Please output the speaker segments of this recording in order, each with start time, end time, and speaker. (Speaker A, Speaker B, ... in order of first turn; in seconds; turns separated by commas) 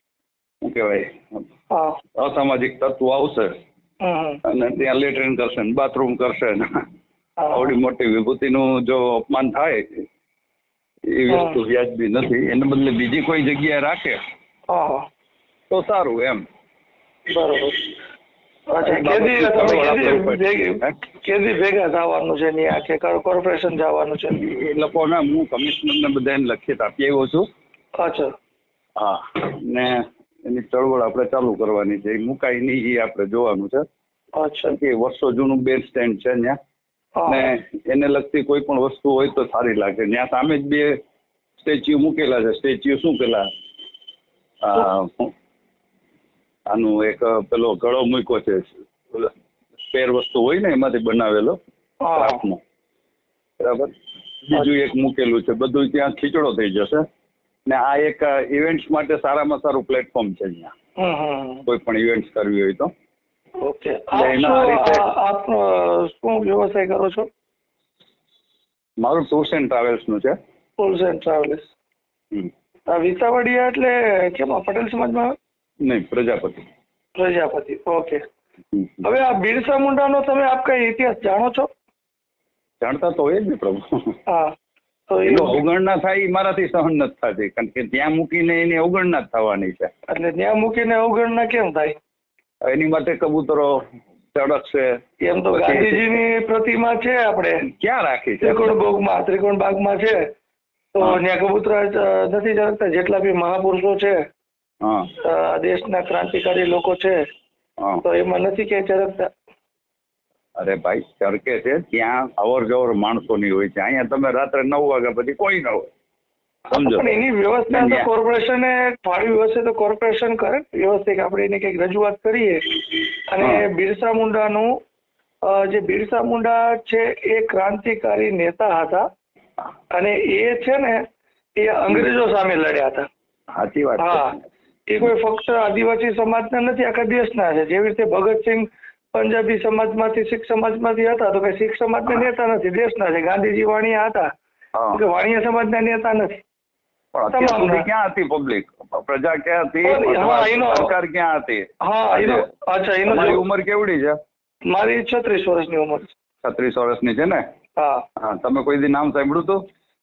Speaker A: 0.6-1.4, Speaker B: 1.7-2.0, Speaker A: 2.2-3.6, Speaker B: 4.0-4.4, Speaker A: 4.4-6.8, Speaker B: 7.4-7.7, Speaker A: 7.5-10.1, Speaker A: 11.1-14.2, Speaker B: 11.3-11.6, Speaker B: 14.7-15.1, Speaker A: 15.7-16.4, Speaker B: 17.3-17.9, Speaker B: 18.7-24.4, Speaker A: 18.8-20.9, Speaker A: 24.3-27.5, Speaker B: 28.0-28.3, Speaker A: 29.0-33.9, Speaker B: 34.4-34.8, Speaker A: 34.7-36.6, Speaker B: 37.2-37.5, Speaker A: 37.3-41.0, Speaker A: 41.6-43.5, Speaker A: 44.6-45.3, Speaker A: 46.7-49.3, Speaker A: 49.9-51.6, Speaker B: 52.0-52.4, Speaker A: 52.1-52.6, Speaker A: 53.6-57.1, Speaker A: 57.7-60.7, Speaker B: 61.0-61.6, Speaker A: 61.7-62.9, Speaker B: 63.6-67.3, Speaker A: 64.1-65.0, Speaker A: 69.0-70.4, Speaker B: 70.8-71.7, Speaker B: 72.9-75.3, Speaker A: 75.8-76.7, Speaker B: 77.2-78.2, Speaker A: 78.7-79.0, Speaker B: 79.0-81.7, Speaker A: 82.8-84.2, Speaker B: 85.1-85.6, Speaker A: 85.2-89.9, Speaker B: 90.1-92.0, Speaker A: 92.6-95.0, Speaker B: 95.2-97.6, Speaker A: 95.6-96.1, Speaker A: 97.7-98.8, Speaker B: 98.4-100.3, Speaker B: 100.9-104.2, Speaker A: 104.8-105.1, Speaker B: 105.2-107.3, Speaker B: 108.0-109.3, Speaker A: 110.6-115.9, Speaker B: 116.7-124.8, Speaker A: 116.7-117.1, Speaker A: 117.7-118.1, Speaker B: 125.4-129.1, Speaker B: 129.9-131.0, Speaker B: 131.6-133.1, Speaker A: 133.5-134.4, Speaker B: 134.0-134.3, Speaker B: 134.9-144.3, Speaker A: 144.7-145.0, Speaker B: 144.9-146.4, Speaker A: 147.1-152.4, Speaker B: 147.3-147.8, Speaker B: 149.8-150.9, Speaker B: 151.8-153.4, Speaker A: 153.1-154.2, Speaker B: 154.7-156.1, Speaker A: 156.4-157.4, Speaker B: 157.8-158.0, Speaker A: 158.2-159.6